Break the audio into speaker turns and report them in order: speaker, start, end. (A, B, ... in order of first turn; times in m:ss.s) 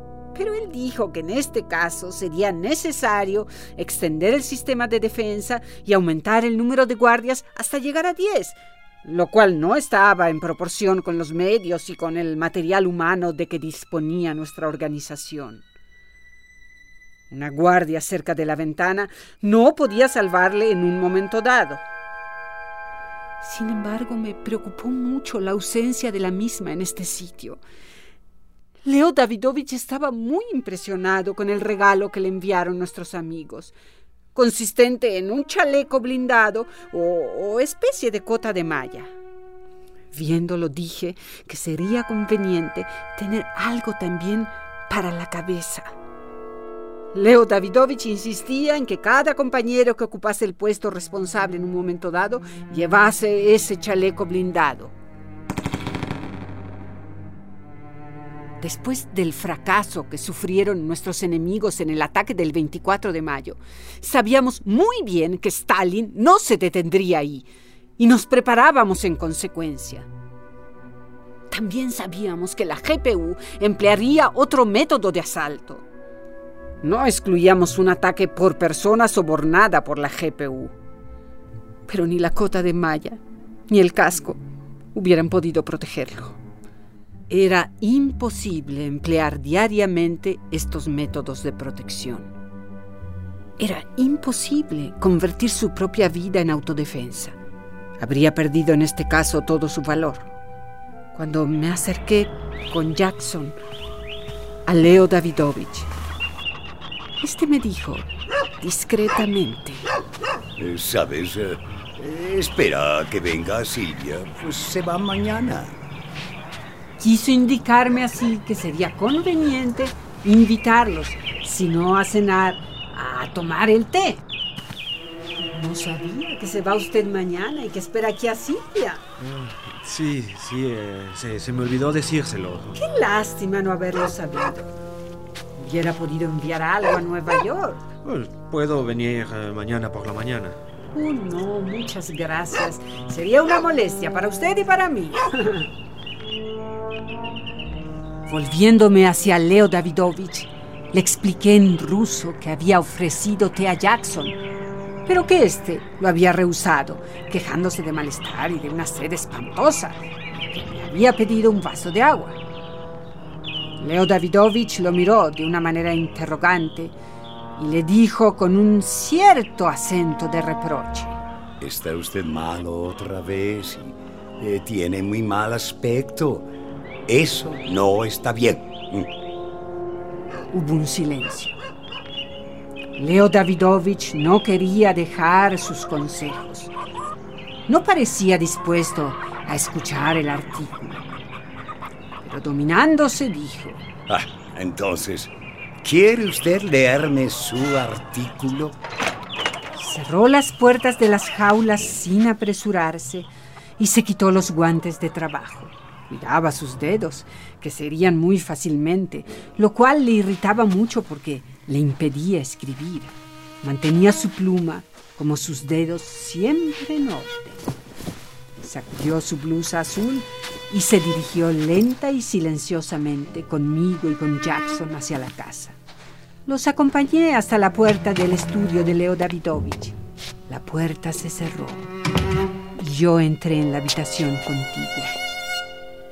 0:00.3-0:15.6 A
0:17.3-0:21.8 A
0:23.4-0:27.6 A
0:28.8-0:33.7 A
0:34.3-0:39.1 A
0:40.1-0:45.9 A
0:47.1-0:54.9 A
0:58.6-1:07.5 A
1:08.0-1:10.1 A
1:11.5-1:15.8 A
1:16.8-1:20.7 A
1:21.9-1:24.4 A
1:24.9-1:26.4 A
1:27.3-1:32.3 A
1:33.6-1:37.4 A
1:38.0-1:40.3 A
1:41.1-1:43.6 A
1:44.6-1:45.9 A
1:47.2-1:48.1 A
1:48.6-1:49.8 A
1:50.6-1:55.8 B
1:57.0-2:04.2 A
2:05.4-2:09.0 A
2:09.2-2:12.8 C
2:12.7-2:14.7 A
2:15.6-2:17.8 A
2:18.0-2:20.6 C
2:20.9-2:25.7 A
2:28.3-2:34.4 A
2:35.0-2:42.4 A
2:43.8-2:46.9 A
2:47.6-2:51.2 A
2:51.6-2:56.5 B
2:57.1-2:59.1 B
3:00.5-3:01.6 A
3:03.0-3:06.7 A
3:07.7-3:11.0 A
3:12.2-3:13.8 A
3:14.1-3:18.8 B
3:19.8-3:37.6 A
3:38.6-3:45.8 A
3:46.4-3:50.0 A
3:50.5-3:51.9 A
3:52.8-3:55.2 A